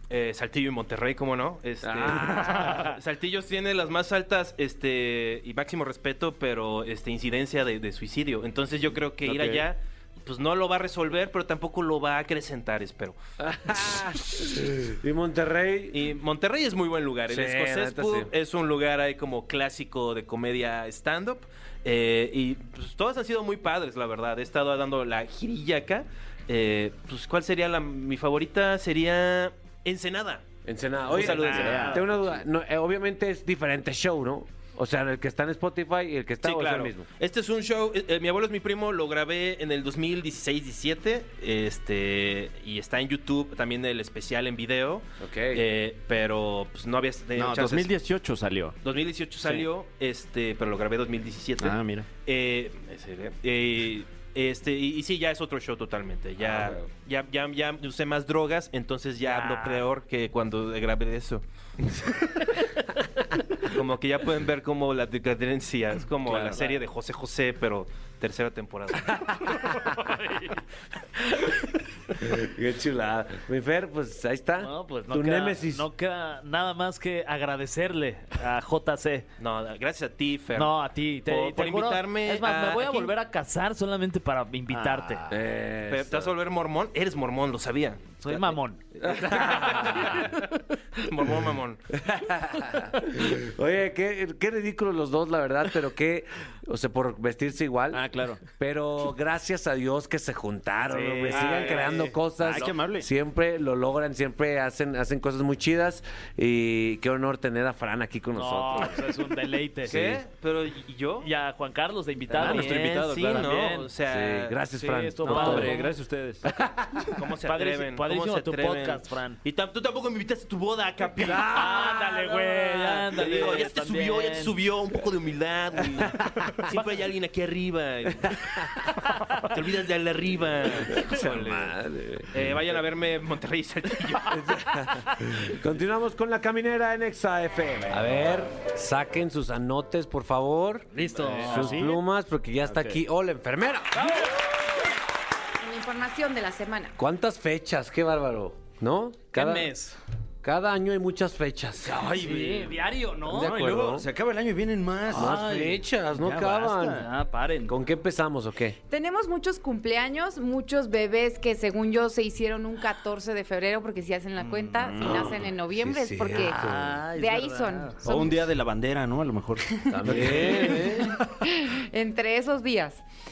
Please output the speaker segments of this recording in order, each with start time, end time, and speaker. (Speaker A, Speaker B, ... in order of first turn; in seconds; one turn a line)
Speaker A: 0.1-13.2
Speaker B: 1.8-2.8
Speaker C: 9.2-9.7
Speaker B: 13.4-16.0
Speaker A: 15.9-30.5
Speaker B: 17.3-18.3
Speaker B: 30.6-37.1
Speaker A: 31.1-32.1
Speaker D: 31.2-32.1
Speaker C: 31.6-31.9
Speaker A: 36.4-47.9
Speaker B: 45.2-45.6
Speaker C: 47.4-48.8
Speaker A: 48.8-62.1
Speaker C: 49.4-49.7
Speaker C: 51.6-52.1
Speaker D: 59.2-59.9
Speaker A: 63.6-69.6
Speaker C: 66.3-66.6
Speaker B: 72.2-75.9
Speaker D: 74.6-79.3
Speaker A: 79.4-83.1
Speaker D: 80.5-85.3
Speaker C: 84.7-85.3
Speaker B: 85.3-86.3
Speaker A: 85.9-88.2
Speaker D: 88.2-88.8
Speaker A: 89.0-91.9
Speaker B: 89.0-90.2
Speaker B: 92.0-109.0
Speaker C: 97.9-98.4
Speaker D: 100.9-102.7
Speaker A: 101.3-102.1
Speaker C: 102.4-103.1
Speaker D: 108.4-110.2
Speaker A: 109.9-111.3
Speaker D: 111.2-113.9
Speaker C: 112.3-113.0
Speaker A: 112.4-114.6
Speaker B: 114.1-115.8
Speaker D: 114.8-115.9
Speaker C: 115.2-116.4
Speaker B: 116.5-117.1
Speaker A: 117.1-128.8
Speaker D: 117.5-119.4
Speaker B: 121.2-122.0
Speaker D: 121.5-124.5
Speaker A: 129.4-131.8
Speaker B: 130.9-132.3
Speaker A: 132.3-134.8
Speaker B: 134.3-144.1
Speaker D: 140.9-141.9
Speaker C: 141.2-142.0
Speaker C: 142.7-143.0
Speaker D: 143.9-144.4
Speaker E: 145.6-147.0
Speaker B: 147.0-149.7
Speaker D: 149.3-150.0
Speaker B: 150.4-152.1
Speaker C: 151.8-155.7
Speaker D: 152.1-153.6
Speaker B: 153.4-154.1
Speaker B: 155.1-157.1
Speaker D: 155.1-157.8
Speaker C: 156.2-157.0
Speaker B: 157.7-158.8
Speaker E: 158.9-166.6
Speaker D: 164.8-165.1
Speaker C: 164.8-165.4
Speaker B: 165.7-167.0
Speaker D: 166.4-168.1
Speaker E: 167.1-168.5
Speaker C: 168.0-171.1
Speaker E: 169.7-170.0
Speaker B: 169.9-171.1
Speaker E: 171.0-173.0